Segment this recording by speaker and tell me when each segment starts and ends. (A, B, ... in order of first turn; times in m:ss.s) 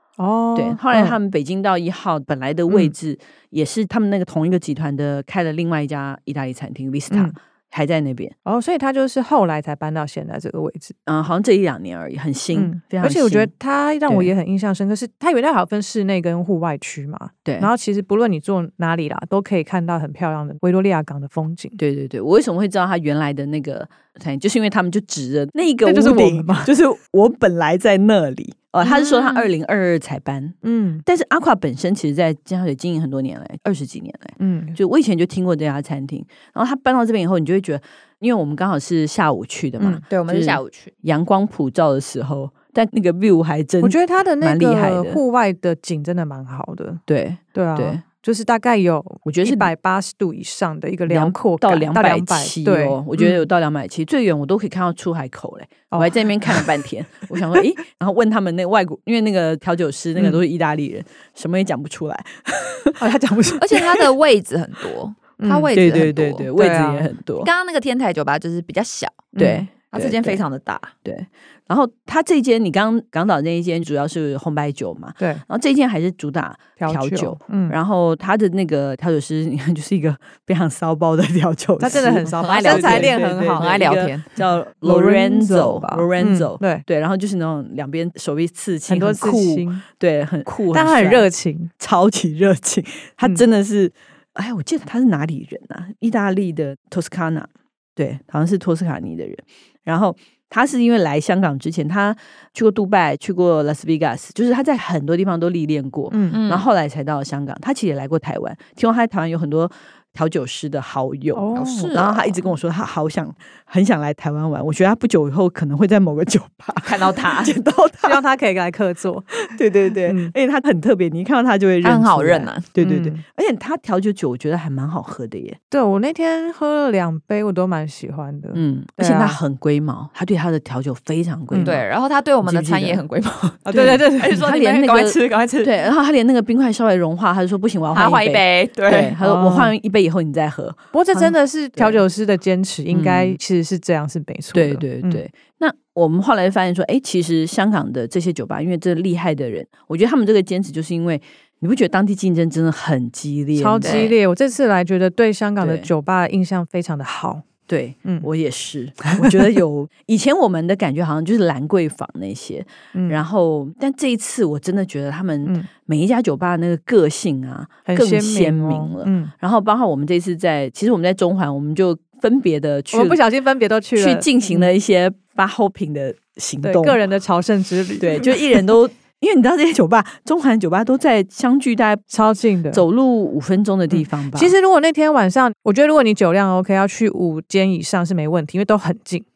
0:00.2-0:01.2 A
0:00.5-0:08.3 B
0:07.1-0:07.3 A
0:08.4-0:10.9 A
0:11.0-0:13.5 B
0:12.5-0:21.8 A
0:14.1-0:14.3 B
0:17.4-0:17.7 B
0:21.8-0:45.2 B
0:25.8-0:26.7 A
0:28.8-0:29.4 C
0:30.6-0:31.0 A
0:34.4-0:34.8 A
0:39.8-0:40.0 A
0:40.1-0:40.9 C
0:43.8-0:47.0 A
0:47.1-0:48.0 B
0:47.5-0:53.4 A
0:49.2-0:49.7 B
0:51.1-1:03.0 B
0:55.9-0:56.7 A
1:03.0-1:03.8 A
1:03.6-1:06.5 C
1:05.4-1:05.7 A
1:05.7-1:07.5 B
1:06.5-1:07.0 A
1:07.4-1:10.9 C
1:09.4-1:09.7 A
1:09.4-1:10.4 B
1:11.0-1:31.3 B
1:15.2-1:15.4 A
1:16.8-1:17.8 A
1:21.8-1:23.8 A
1:21.9-1:24.3 C
1:24.8-1:26.8 A
1:28.9-1:29.8 A
1:30.7-1:31.7 A
1:31.8-1:58.2 B
1:46.1-1:46.4 A
1:46.3-1:46.6 C
1:51.3-1:51.9 A
1:51.5-1:52.3 C
1:56.8-1:57.6 C
1:58.0-1:59.4 A
1:59.4-2:05.6 B
2:00.0-2:00.3 A
2:01.8-2:02.7 C
2:02.8-2:03.2 A
2:05.7-2:09.4 A
2:08.5-2:11.8 B
2:11.5-2:11.8 A
2:11.6-2:15.7 C
2:12.4-2:13.0 B
2:13.6-2:14.4 A
2:13.7-2:22.0 B
2:17.9-2:19.1 C
2:19.2-2:19.7 A
2:20.9-2:25.2 A
2:22.9-2:23.4 B
2:24.5-2:34.1 B
2:33.6-2:37.4 A
2:33.8-2:34.2 C
2:35.6-2:35.9 B
2:37.7-2:53.2 B
2:42.9-2:43.2 A
2:47.8-2:49.3 A
2:52.9-2:54.7 A
2:53.9-2:57.0 B
2:56.6-2:58.6 A
2:58.0-3:02.1 B
3:02.1-3:02.8 A
3:02.7-3:04.5 B
3:03.9-3:09.2 A